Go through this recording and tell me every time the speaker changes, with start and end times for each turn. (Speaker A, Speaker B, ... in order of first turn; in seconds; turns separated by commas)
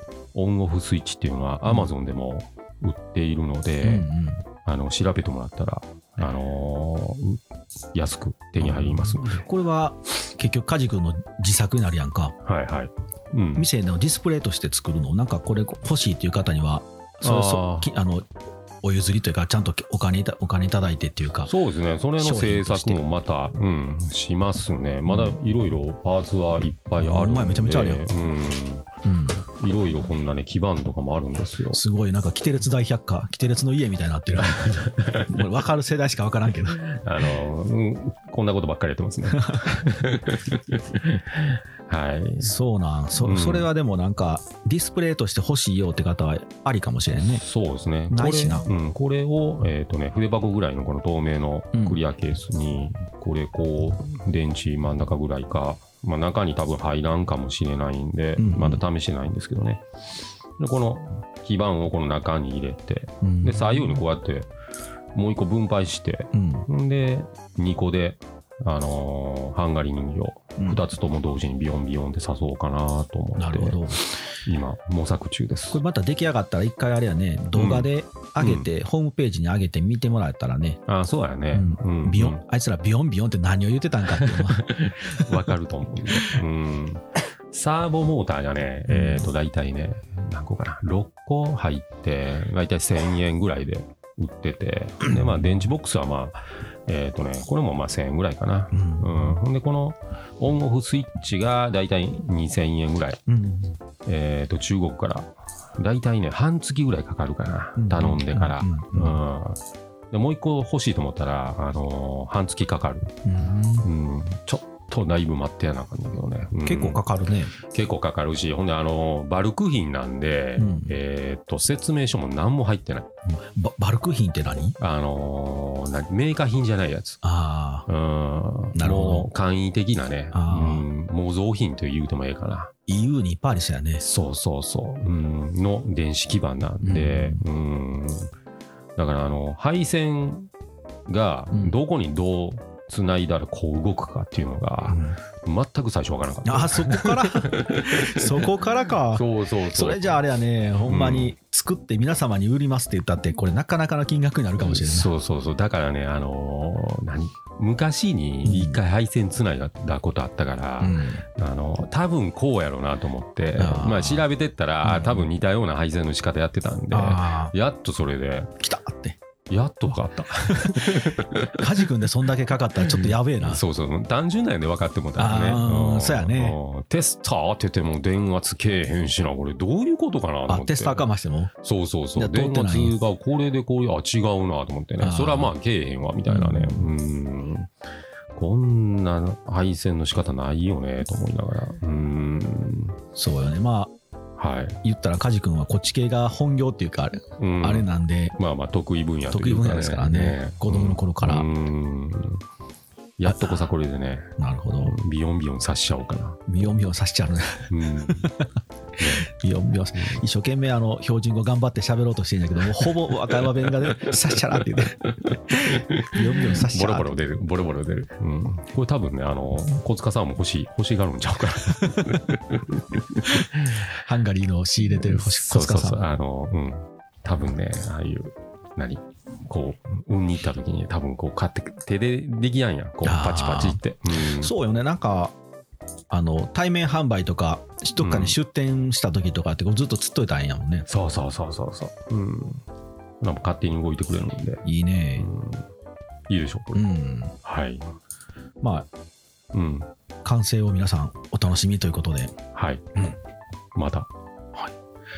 Speaker A: 0.3-4.1, Speaker B: 1.6-1.9, Speaker B: 3.8-4.4, Speaker A: 4.6-7.4, Speaker A: 7.9-9.5, Speaker B: 8.6-12.3, Speaker A: 12.4-13.7, Speaker B: 13.6-18.3, Speaker A: 17.2-17.9, Speaker B: 18.8-21.5, Speaker A: 21.4-28.9, Speaker B: 22.2-23.0, Speaker B: 25.1-25.4, Speaker B: 27.0-28.1, Speaker B: 29.0-29.4, Speaker A: 29.6-31.8, Speaker B: 31.7-36.9, Speaker A: 34.5-35.3, Speaker A: 36.8-42.5, Speaker B: 39.3-39.7, Speaker B: 42.4-47.4, Speaker A: 43.1-43.7, Speaker A: 47.3-59.8, Speaker B: 48.1-48.6, Speaker B: 51.7-52.0, Speaker B: 58.4-58.8, Speaker A: 60.6-64.5, Speaker B: 63.2-64.0, Speaker A: 65.1-75.8, Speaker B: 66.3-66.7, Speaker B: 70.6-70.8, Speaker B: 73.4-74.0, Speaker B: 75.7-80.8, Speaker A: 77.5-78.7, Speaker A: 80.9-82.4, Speaker B: 81.5-85.4, Speaker A: 84.1-103.2, Speaker B: 88.9-89.3, Speaker B: 98.7-99.3, Speaker B: 103.3-103.7, Speaker A: 104.0-113.1, Speaker B: 107.8-109.2, Speaker B: 113.2-113.9, Speaker A: 113.8-117.0, Speaker B: 116.6-117.5, Speaker A: 117.7-123.1, Speaker B: 120.6-120.9, Speaker B: 123.2-124.8, Speaker A: 124.8-127.2, Speaker B: 127.2-127.9, Speaker A: 127.9-132.7, Speaker B: 128.7-129.3, Speaker B: 130.3-130.8, Speaker B: 132.9-134.0, Speaker A: 134.0-138.3, Speaker B: 136.8-137.4, Speaker A: 138.9-140.5, Speaker A: 141.1-148.6, Speaker B: 141.5-141.8, Speaker B: 144.9-145.2, Speaker B: 146.4-155.1, Speaker A: 149.1-150.2, Speaker A: 150.8-151.3, Speaker A: 154.6-168.5, Speaker B: 158.4-158.8, Speaker B: 160.8-161.2, Speaker B: 163.6-164.2, Speaker B: 164.8-165.3, Speaker B: 166.9-167.5, Speaker B: 168.6-169.2, Speaker A: 169.5-171.9, Speaker B: 170.5-173.6, Speaker A: 172.8-181.1, Speaker B: 175.2-176.6, Speaker B: 180.5-181.5, Speaker A: 181.6-187.7, Speaker B: 182.2-182.9, Speaker B: 185.0-185.5, Speaker B: 186.3-186.9, Speaker A: 188.3-193.0, Speaker B: 193.1-193.9, Speaker A: 194.4-194.8, Speaker B: 194.8-198.3, Speaker A: 197.4-202.4, Speaker B: 199.3-201.5, Speaker A: 203.2-206.4, Speaker B: 203.2-203.7, Speaker B: 204.4-204.9, Speaker B: 206.5-208.5, Speaker A: 207.7-208.3, Speaker A: 209.0-209.3, Speaker B: 209.3-217.2, Speaker A: 212.8-223.9, Speaker B: 221.8-222.1, Speaker B: 223.9-226.0, Speaker A: 224.8-234.5, Speaker B: 233.0-235.3, Speaker B: 236.1-240.8, Speaker A: 238.0-238.4, Speaker A: 240.9-242.6, Speaker A: 243.2-244.6, Speaker B: 244.6-245.3, Speaker A: 245.2-245.7, Speaker A: 246.3-246.8, Speaker B: 246.7-247.3, Speaker A: 247.4-247.9, Speaker B: 248.6-248.9, Speaker A: 249.5-249.9, Speaker B: 250.2-252.3, Speaker A: 252.5-252.8, Speaker A: 253.8-254.1